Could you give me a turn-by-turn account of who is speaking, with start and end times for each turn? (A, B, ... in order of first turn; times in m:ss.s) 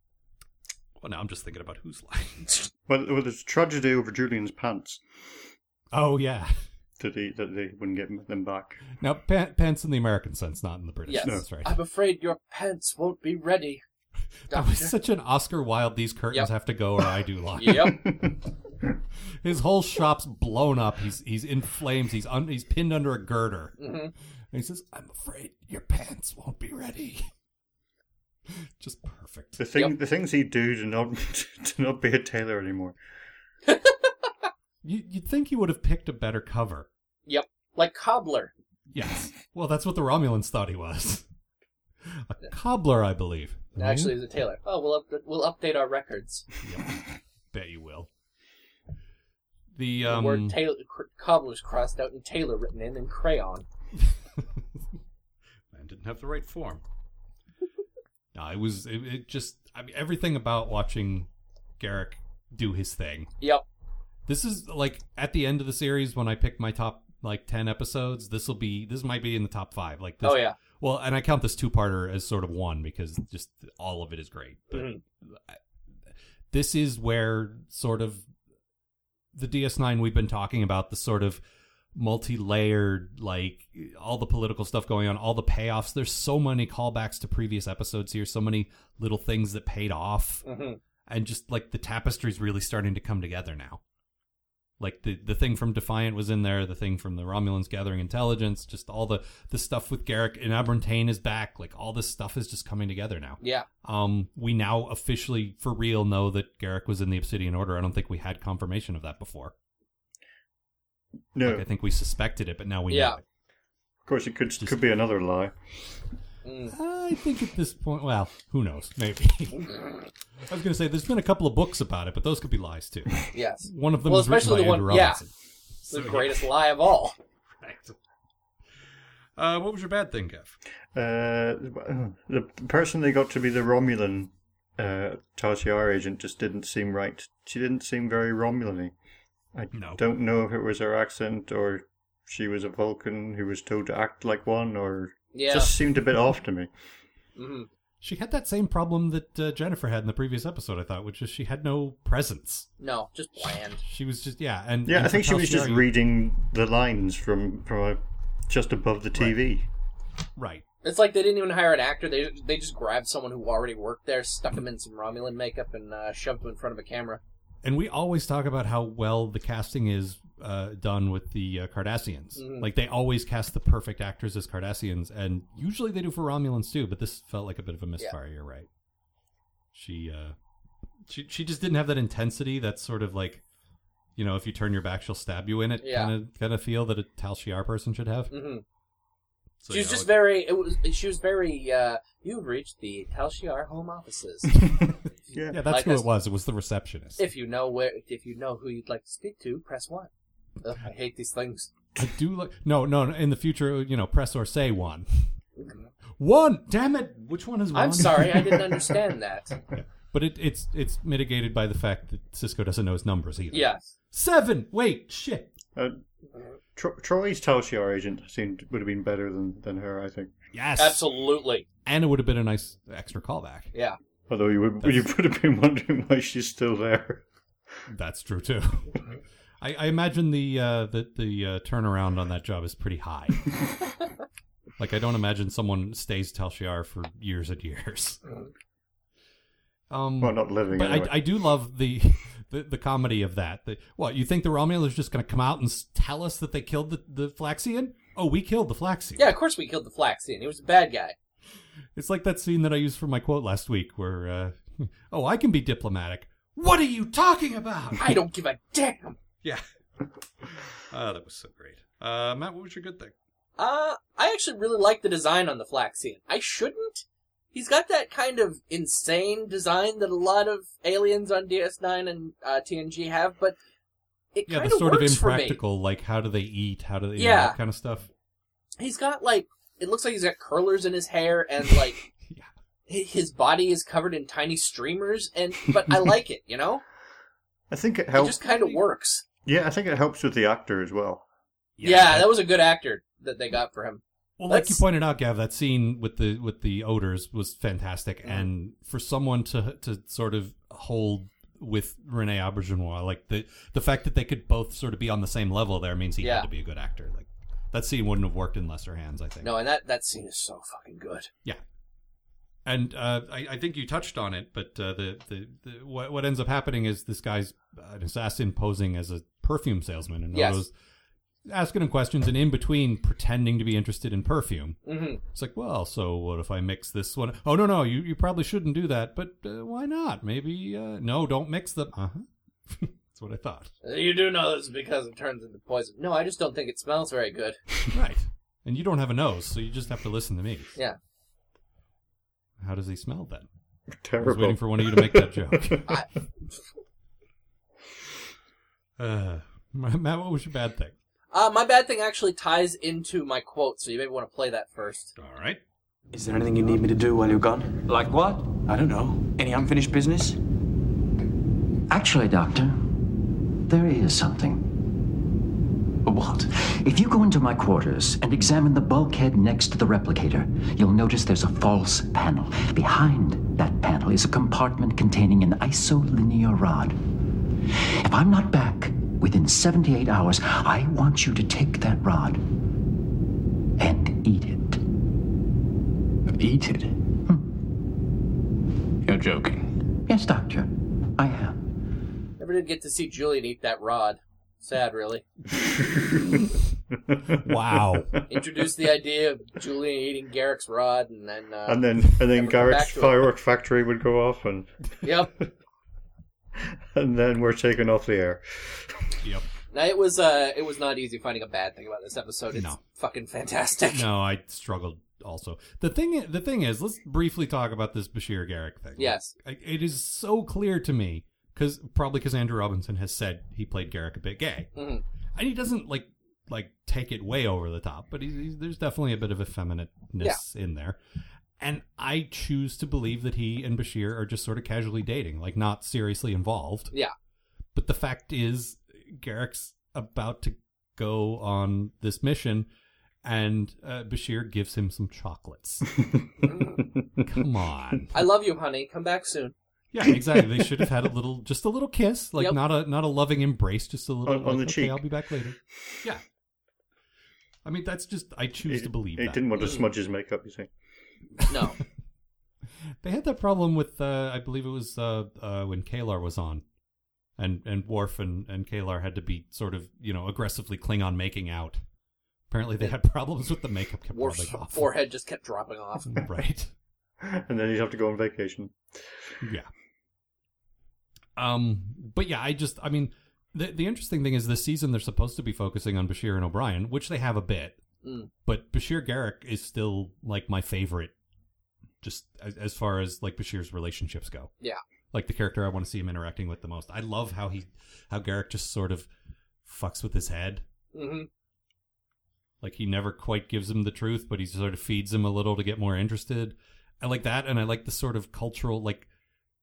0:01.0-0:02.7 A
0:02.9-0:05.0 B
0:05.9-0:06.6 A
0:07.0-0:08.8 B
0:09.0-0:11.8 A
0:11.1-0:13.8 C
0:14.5-0:14.9 C
0:14.5-0:18.2 A
0:17.6-0:18.0 C
0:19.4-0:23.8 A
0:23.8-0:24.1 C
0:24.5-0:27.3 A
0:28.8-0:29.6 A
0:29.6-0:33.0 B
0:33.7-0:34.3 C
0:34.8-0:36.9 A
0:37.3-0:38.5 C
0:38.9-0:41.2 A
0:42.1-0:44.1 A
0:43.8-0:46.5 C
0:46.6-0:47.0 A
0:47.5-0:48.1 A
0:49.7-0:50.6 A
0:50.0-0:53.7 C
0:55.7-0:56.8 A
0:58.4-1:01.3 A
1:01.8-1:03.3 A
1:04.3-1:15.6 A
1:10.2-1:10.6 C
1:14.7-1:15.0 C
1:16.5-1:18.2 A
1:19.3-1:21.4 A
1:22.0-1:30.4 A
1:30.4-1:30.8 C
1:31.1-1:33.8 A
1:34.8-1:49.5 A
1:43.4-1:43.7 C
1:51.4-1:51.7 B
1:51.4-1:53.2 A
1:52.9-1:53.2 C
1:54.1-1:55.6 B
1:56.4-1:56.7 C
1:56.7-1:59.8 A
2:00.5-2:05.3 A
2:03.3-2:05.2 C
2:05.8-2:06.5 A
2:05.9-2:07.2 C
2:07.6-2:08.0 A
2:09.4-2:10.6 A
2:11.0-2:18.9 B
2:19.5-2:26.7 B
2:19.7-2:20.0 A
2:25.3-2:25.7 C
2:27.4-2:27.7 C
2:28.0-2:32.7 A
2:32.8-2:33.8 C
2:33.8-2:35.9 A
2:34.9-2:39.7 B
2:40.4-2:40.6 A
2:40.8-2:47.2 C
2:47.6-2:58.7 A
2:52.4-2:52.7 C
2:59.7-3:00.4 A
3:01.1-3:03.4 A
3:04.2-3:08.3 A
3:05.8-3:06.1 C
3:08.3-3:08.6 C
3:09.6-3:10.2 A
3:09.7-3:14.7 C
3:15.3-3:15.7 B
3:15.5-3:17.2 A
3:15.6-3:16.1 C
3:17.2-3:20.1 C
3:20.6-3:21.7 C
3:22.0-3:25.3 A
3:25.6-3:25.9 C
3:26.2-3:28.9 A
3:27.7-3:29.6 C
3:29.7-3:35.5 A
3:33.5-3:33.9 C
3:35.8-3:36.0 B
3:36.8-3:40.3 B
3:40.5-3:41.1 A
3:40.8-3:41.6 C
3:41.8-3:43.7 A
3:44.3-3:47.2 B
3:44.8-3:45.1 A
3:47.9-3:49.0 A
3:49.6-3:53.5 A
3:54.8-3:58.2 A
3:59.9-4:09.3 A
4:00.2-4:01.2 B
4:09.2-4:11.2 C
4:12.0-4:18.2 A
4:18.0-4:19.2 C
4:20.4-4:23.1 A
4:23.6-4:33.6 C
4:34.3-4:35.6 C
4:34.5-4:38.1 A
4:37.2-4:37.6 C
4:38.8-4:42.0 C
4:42.2-4:42.5 A
4:42.9-4:46.8 C
4:47.7-4:48.4 B
4:48.2-4:49.2 C
4:48.5-4:48.8 A
4:49.5-4:51.2 B
4:51.8-4:52.4 A
4:51.8-4:54.8 C
4:54.4-5:09.5 A
5:06.2-5:06.5 C
5:09.4-5:11.3 C
5:12.7-5:20.7 A
5:20.3-5:20.6 C
5:21.5-5:33.7 A
5:24.9-5:25.2 C
5:33.8-5:37.6 C
5:37.9-5:40.8 A
5:42.6-5:43.5 A
5:44.0-5:45.8 B
5:44.2-5:45.9 A
5:49.0-5:50.9 A
5:51.3-5:55.1 C
5:55.2-5:55.6 A
5:56.1-6:00.4 D
6:01.9-6:02.9 E
6:03.7-6:04.7 E
6:06.1-6:06.5 D
6:06.7-6:17.0 E
6:18.0-6:22.4 E
6:23.8-6:24.8 E
6:26.3-6:26.9 D
6:29.0-6:29.7 D
6:30.1-6:31.6 E
6:32.4-6:35.2 C
6:35.9-6:36.4 B
6:37.1-6:38.2 B
6:37.3-6:38.2 A
6:38.3-6:43.3 C
6:41.7-6:44.7 B
6:45.0-6:45.3 C
6:46.9-6:49.0 B
6:49.7-6:54.0 C
6:52.5-6:52.8 A
6:53.9-7:04.7 A
6:59.0-6:59.3 C
7:04.8-7:05.0 C
7:05.4-7:11.0 A
7:11.6-7:16.9 A
7:17.8-7:22.7 A
7:23.2-7:25.9 A
7:26.4-7:26.8 C
7:27.0-7:27.3 B
7:27.2-7:28.3 A
7:28.1-7:29.6 C
7:29.9-7:36.2 A
7:30.0-7:30.9 B
7:34.3-7:35.0 B
7:37.6-7:39.5 A
7:38.6-7:40.7 B
7:39.6-7:39.8 C
7:41.5-7:41.8 C
7:43.0-7:46.6 A
7:47.4-7:51.8 A
7:52.5-7:54.9 A
7:54.1-7:56.2 C
7:56.1-7:56.7 A
7:57.2-7:59.0 B
7:59.4-7:59.7 A
8:01.4-8:07.8 A
8:08.0-8:08.3 C
8:08.5-8:11.1 A
8:12.0-8:14.5 A
8:15.1-8:19.1 A
8:19.6-8:20.6 A
8:20.9-8:21.3 C
8:22.6-8:29.1 A